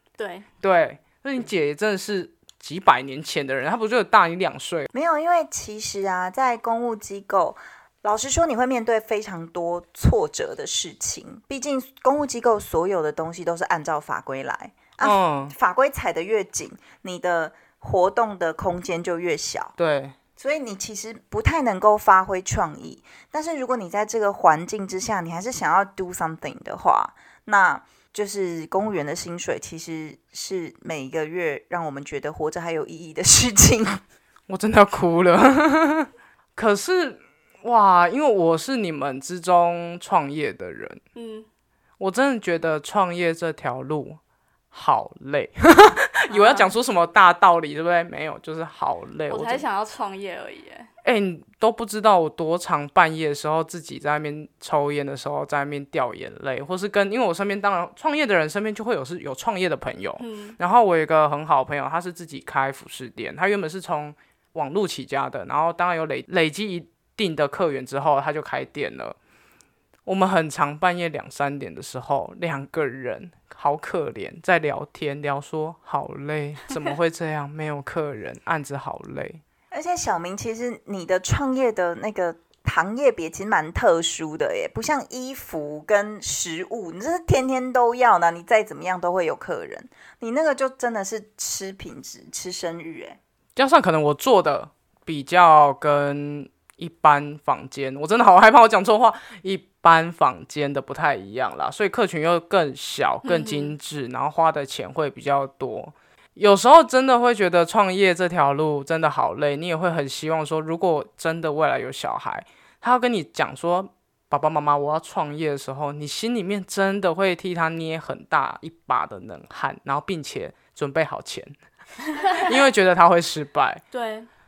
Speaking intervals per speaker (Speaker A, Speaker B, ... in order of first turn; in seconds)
Speaker A: 0.2-0.5, 41.1-41.5, 46.3-46.7, 49.3-50.9, 60.2-60.6, 103.2-103.8, 122.0-122.5, 123.9-124.3
Speaker B: 0.6-4.9, 15.0-15.5, 19.8-20.1, 34.5-41.0, 42.0-44.2, 44.7-49.6, 51.0-69.2, 70.0-79.4, 93.5-121.5, 122.3-123.8
Speaker C: 4.9-19.7, 20.4-34.0, 79.7-93.2